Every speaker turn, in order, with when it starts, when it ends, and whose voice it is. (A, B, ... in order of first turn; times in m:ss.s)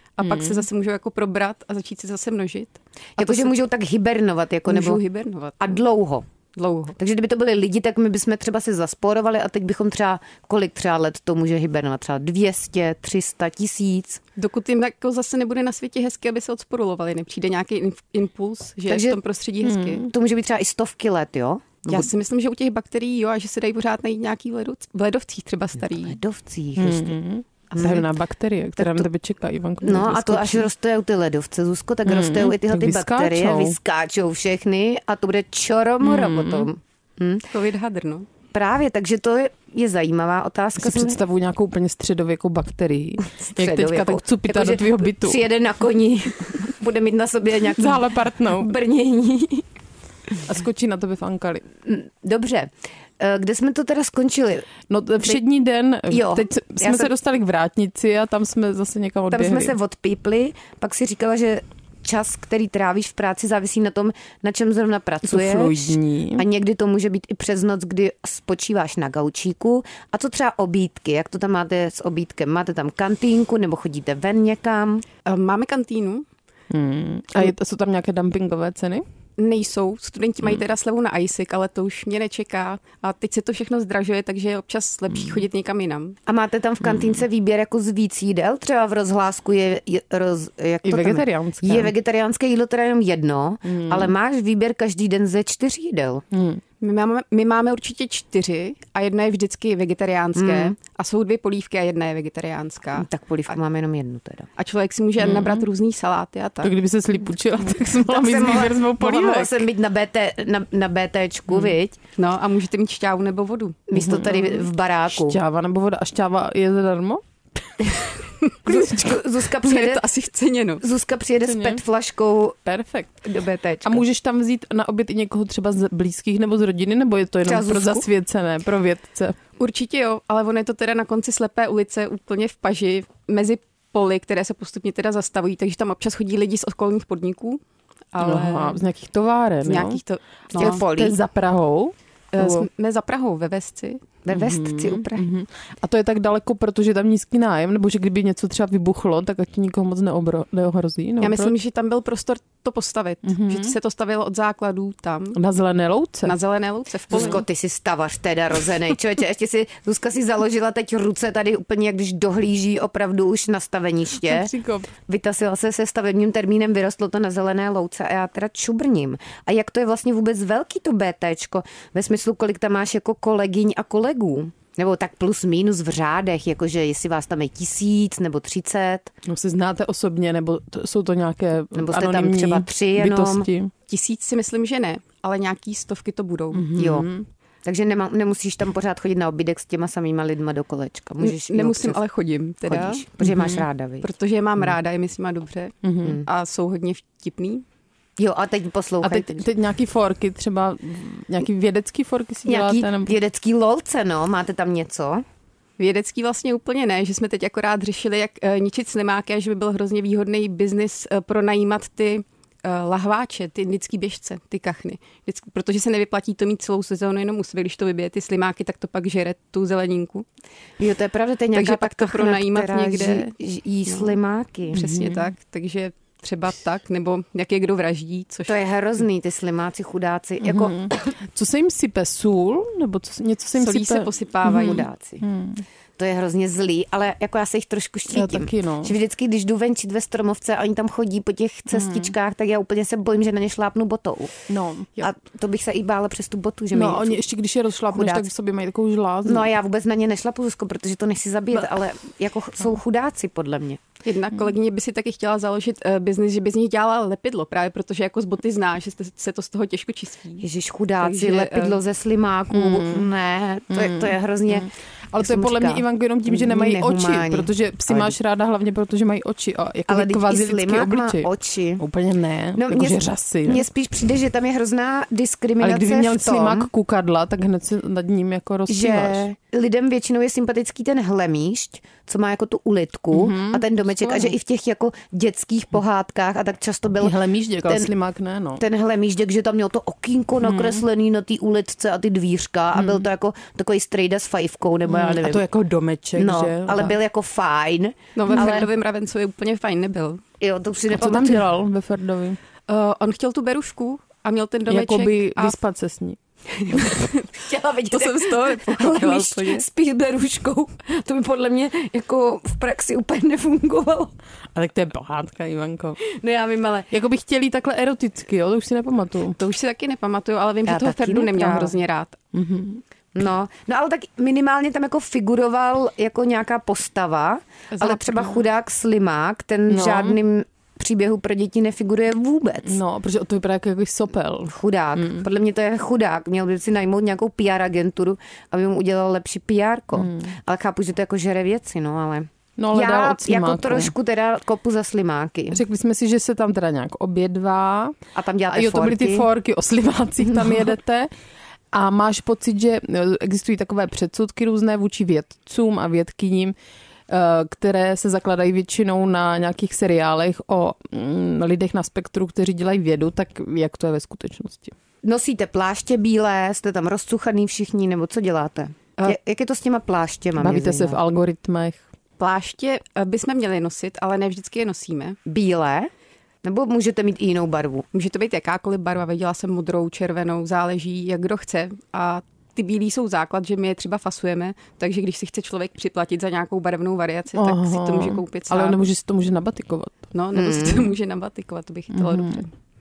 0:00.2-0:03.6 A
0:00.2-0:00.7 B
0:03.2-0:05.0 C
0:04.7-0:05.8 A
0:05.6-0:06.3 C
0:06.6-0:07.0 A
0:07.0-0:14.2 C
0:14.4-0:20.1 A
0:18.9-0:19.2 C
0:19.6-0:20.1 B
0:20.1-0:22.1 C
0:21.9-0:26.2 A
0:25.9-0:27.2 C
0:26.8-0:30.7 B
0:27.7-0:28.1 C
0:28.8-0:29.1 C
0:29.8-0:37.4 C
0:32.1-0:33.8 B
0:36.0-0:36.7 B
0:37.5-0:38.3 A
0:38.5-0:41.2 C
0:40.8-0:45.4 B
0:43.2-0:49.6 C
0:47.7-0:48.7 B
0:50.4-0:51.6 B
0:51.8-0:54.7 C
0:54.9-0:59.8 B
0:56.1-0:57.1 C
0:59.3-1:15.0 C
1:05.2-1:06.5 B
1:15.2-1:16.3 A
1:16.7-1:19.0 B
1:19.4-1:26.2 A
1:26.3-1:36.2 C
1:26.8-1:27.1 B
1:30.8-1:31.9 B
1:33.6-1:34.1 B
1:36.3-1:36.6 B
1:36.8-1:43.1 A
1:40.4-1:40.7 C
1:43.0-1:44.5 C
1:44.6-1:46.7 A
1:45.2-1:45.6 B
1:46.6-1:49.7 B
1:48.0-1:52.0 C
1:51.5-1:51.8 B
1:52.2-1:53.8 A
1:53.9-1:55.4 C
1:53.9-1:57.2 B
1:58.6-2:00.0 C
1:58.7-1:59.1 B
1:59.6-2:00.8 A
2:00.8-2:02.6 C
2:01.5-2:01.8 B
2:02.7-2:03.2 B
2:03.2-2:04.0 C
2:03.8-2:09.4 B
2:07.4-2:08.1 C
2:09.6-2:17.6 A
2:18.1-2:18.8 A
2:18.2-2:20.0 B
2:19.6-2:20.8 A
2:20.6-2:21.2 C
2:20.6-2:22.7 B
2:22.3-2:24.0 A
2:24.2-2:25.3 C
2:24.3-2:31.6 B
2:31.2-2:35.4 A
2:33.2-2:33.8 B
2:35.4-2:36.4 B
2:36.2-2:37.4 A
2:37.1-2:37.4 B
2:37.1-2:44.5 C
2:44.2-2:44.9 B
2:45.1-2:59.1 C
2:59.3-3:03.7 B
3:01.7-3:03.5 C
3:03.9-3:06.7 A
3:06.5-3:07.3 B
3:06.8-3:07.1 C
3:07.6-3:12.0 C
3:11.2-3:13.0 A
3:12.7-3:14.1 C
3:13.2-3:13.6 B
3:14.0-3:15.7 A
3:15.8-3:16.2 B
3:16.2-3:17.6 A
3:18.2-3:19.5 C
3:19.0-3:23.2 B
3:22.5-3:25.2 C
3:25.8-3:40.3 A
3:40.8-3:44.8 C
3:41.5-3:43.3 A
3:43.9-3:44.2 A
3:44.7-3:48.6 A
3:44.8-3:45.3 B
3:48.5-3:51.1 C
3:50.4-3:55.6 B
3:53.6-3:54.9 A
3:54.4-3:55.2 C
3:56.0-4:04.4 C
3:58.1-3:58.9 B
4:01.7-4:02.1 B
4:04.5-4:04.9 B
4:05.0-4:07.2 C
4:06.7-4:09.5 B
4:07.9-4:08.3 C
4:09.2-4:13.8 C
4:14.0-4:20.4 A
4:20.4-4:28.1 C
4:21.0-4:21.8 A
4:22.5-4:23.1 B
4:23.7-4:33.6 B
4:29.9-4:31.8 C
4:32.6-4:36.7 C
4:35.6-4:39.3 B
4:38.7-4:47.9 C
4:43.1-4:44.3 B
4:47.0-4:48.6 B
4:48.6-4:55.4 C
4:50.4-4:50.8 B
4:52.8-4:53.1 B
4:54.9-4:57.0 B
4:56.2-4:58.7 C
4:58.2-5:00.2 A
4:58.3-4:58.6 B
5:00.4-5:01.4 C
5:00.9-5:02.4 B
5:02.7-5:05.6 A
5:04.7-5:06.2 B
5:06.6-5:14.1 C
5:06.8-5:07.2 A
5:07.9-5:09.6 A
5:14.5-5:16.0 B
5:16.0-5:16.9 C
5:16.9-5:19.4 B
5:19.4-5:22.2 A
5:20.7-5:21.7 C
5:22.3-5:22.8 B
5:23.2-5:32.8 C
5:27.7-5:28.2 B
5:29.7-5:30.2 B
5:32.6-5:35.2 B
5:34.5-5:45.6 C
5:40.0-5:40.3 B
5:42.6-5:43.9 B
5:45.5-5:48.0 B
5:48.2-5:49.3 C
5:48.5-5:51.1 B
5:51.7-5:56.5 B
5:57.1-6:04.8 B
6:05.0-6:11.0 C
6:10.4-6:11.8 B
6:12.2-6:15.2 A
6:15.3-6:15.9 C
6:16.4-6:17.9 C
6:17.9-6:28.9 A
6:27.4-6:30.1 B
6:30.1-6:32.5 A
6:30.4-6:30.9 C
6:31.9-6:32.4 B